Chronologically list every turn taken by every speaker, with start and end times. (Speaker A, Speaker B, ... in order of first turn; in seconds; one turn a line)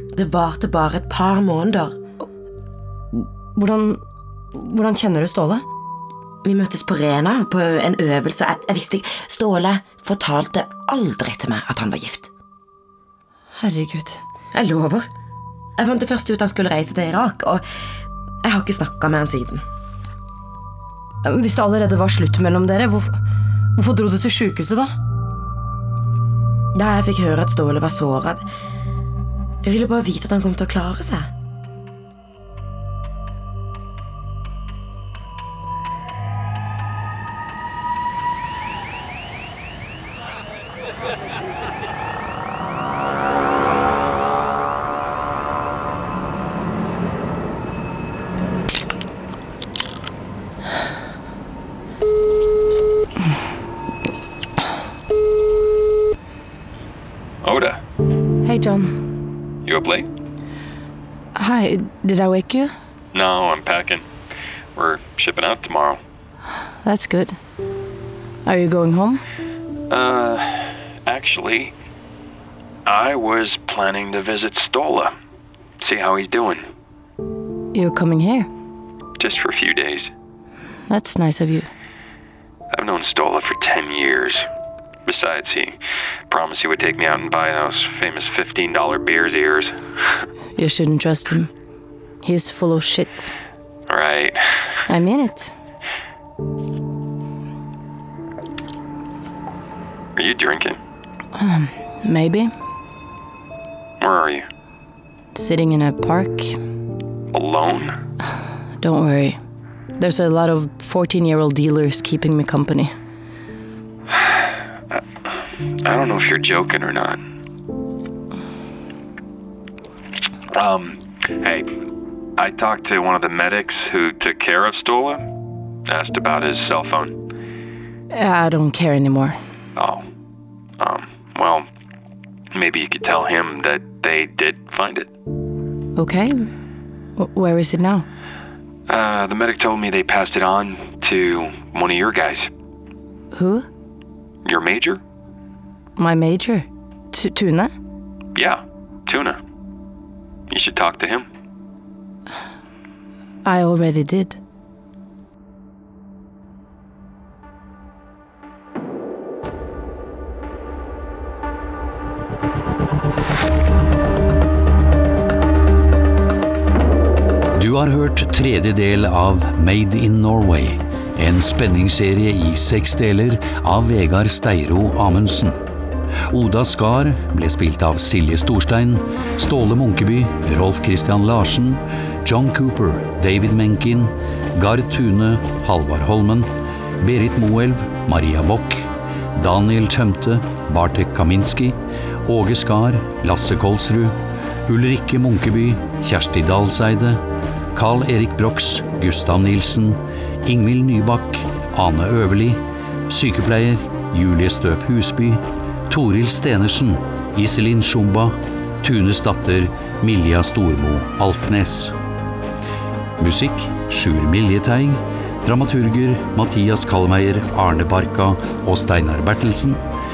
Speaker A: 0.1-2.0
Speaker B: 3.1-4.0
Speaker B: 4.5-5.6
Speaker A: 6.4-12.3
Speaker B: 13.6-14.2
Speaker A: 14.5-15.1
Speaker A: 15.8-17.6
Speaker A: 18.4-19.6
Speaker B: 21.2-23.2
Speaker B: 23.8-24.9
Speaker A: 26.7-28.5
Speaker A: 29.6-31.3
Speaker C: 57.4-57.8
Speaker B: 58.4-58.9
Speaker C: 59.6-60.1
Speaker B: 61.4-62.7
Speaker C: 63.1-64.0
Speaker C: 64.8-66.0
Speaker B: 66.8-67.4
Speaker B: 68.5-69.2
Speaker C: 69.9-71.7
Speaker C: 72.8-75.1
Speaker C: 75.8-76.7
Speaker B: 77.7-78.5
Speaker C: 79.2-80.1
Speaker B: 80.9-81.7
Speaker C: 82.7-84.5
Speaker C: 85.0-85.8
Speaker C: 86.3-89.8
Speaker B: 90.6-91.5
Speaker B: 92.2-93.3
Speaker C: 93.9-94.6
Speaker B: 94.9-95.5
Speaker C: 100.2-100.8
Speaker B: 101.3-102.5
Speaker C: 104.0-104.5
Speaker B: 105.3-106.6
Speaker C: 107.3-107.9
Speaker B: 108.8-109.4
Speaker B: 110.0-112.9
Speaker C: 114.1-115.3
Speaker C: 115.8-117.2
Speaker C: 120.5-121.7
Speaker C: 122.4-125.2
Speaker C: 125.9-127.2
Speaker B: 128.1-129.3
Speaker C: 129.8-130.0
Speaker C: 130.8-131.7
Speaker C: 132.5-135.1
Speaker B: 135.9-136.5
Speaker B: 137.2-138.0
Speaker C: 138.9-142.5
Speaker B: 143.3-143.7
Speaker C: 144.4-145.0
Speaker B: 146.0-147.7
Speaker C: 148.3-149.4
Speaker C: 150.5-151.2
Speaker B: 153.4-154.4
Speaker D: 167.5-175.6
Speaker D: 176.3-197.2
Speaker D: 197.7-211.9
Speaker D: 213.2-219.8